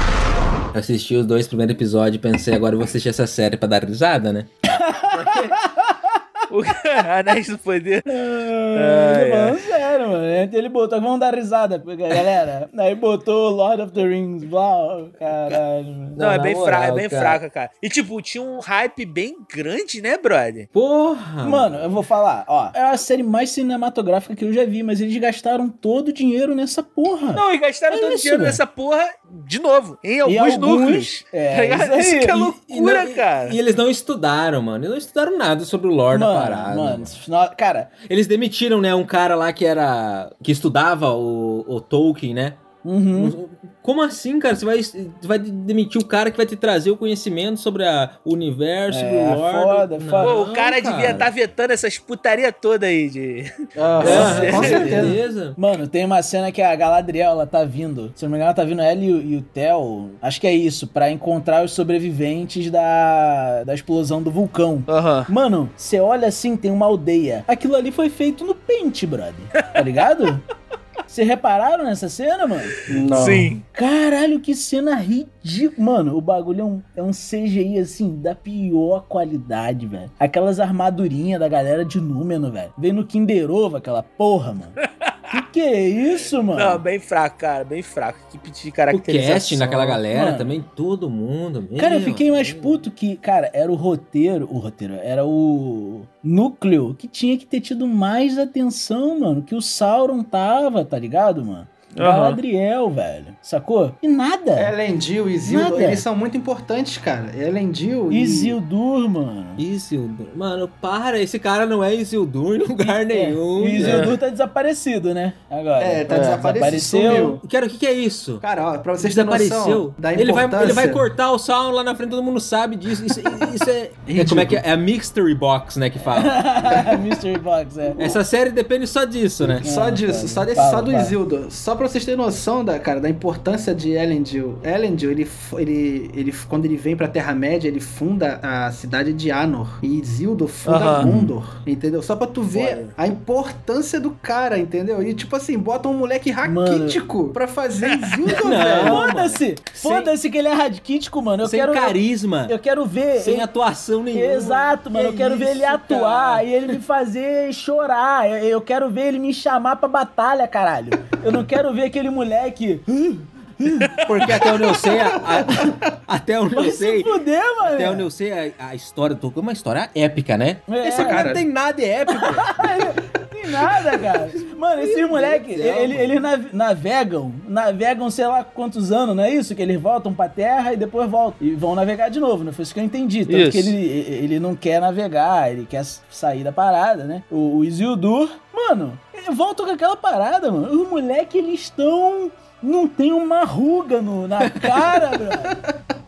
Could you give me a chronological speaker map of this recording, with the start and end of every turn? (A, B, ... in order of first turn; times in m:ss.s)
0:00.7-0:04.5 A
0:04.6-0:06.2 B
0:05.1-0:05.6 A
0:06.5-0:09.6 C
0:08.1-0:16.2 B
0:16.2-0:17.4 A
0:16.2-0:20.7 C
0:20.7-0:21.9 A
0:21.4-0:28.6 B
0:27.3-0:33.6 C
0:30.2-0:32.6 B
0:32.7-0:37.1 A
0:36.1-0:37.9 B
0:38.1-0:42.6 A
0:42.8-0:43.3 B
0:43.1-0:51.3 A
0:48.9-0:50.4 B
0:50.2-0:54.9 C
0:53.8-0:55.2 D
0:54.0-0:55.6 A
0:54.0-1:10.4 B
1:04.9-1:05.3 C
1:11.1-1:24.8 B
1:12.9-1:13.5 D
1:13.1-1:13.6 C
1:25.3-1:26.8 B
1:26.5-1:30.0 C
1:28.9-1:32.8 A
1:30.1-1:30.5 B
1:31.8-1:44.7 B
1:42.0-1:42.4 C
1:44.6-1:48.6 D
1:45.4-1:46.0 B
1:48.1-1:49.6 B
1:49.6-1:54.1 A
1:52.8-1:57.4 B
1:53.8-1:54.1 C
1:55.8-1:57.4 D
1:57.4-1:58.4 A
1:58.4-2:01.0 D
1:59.0-2:06.5 A
2:04.1-2:04.6 D
2:06.0-2:08.0 B
2:06.7-2:07.0 D
2:08.0-2:09.6 A
2:09.5-2:29.0 D
2:09.6-2:11.1 B
2:20.6-2:21.1 C
2:21.0-2:21.3 B
2:22.5-2:22.9 C
2:26.4-2:27.0 B
2:28.4-2:30.1 A
2:28.7-2:33.5 B
2:31.4-2:32.5 A
2:33.2-2:36.4 A
2:34.1-2:44.1 B
2:44.0-2:52.6 A
2:46.5-2:48.1 B
2:50.7-2:51.4 B
2:51.0-2:51.4 D
2:52.1-3:15.6 B
2:54.8-2:56.2 A
3:03.3-3:03.7 C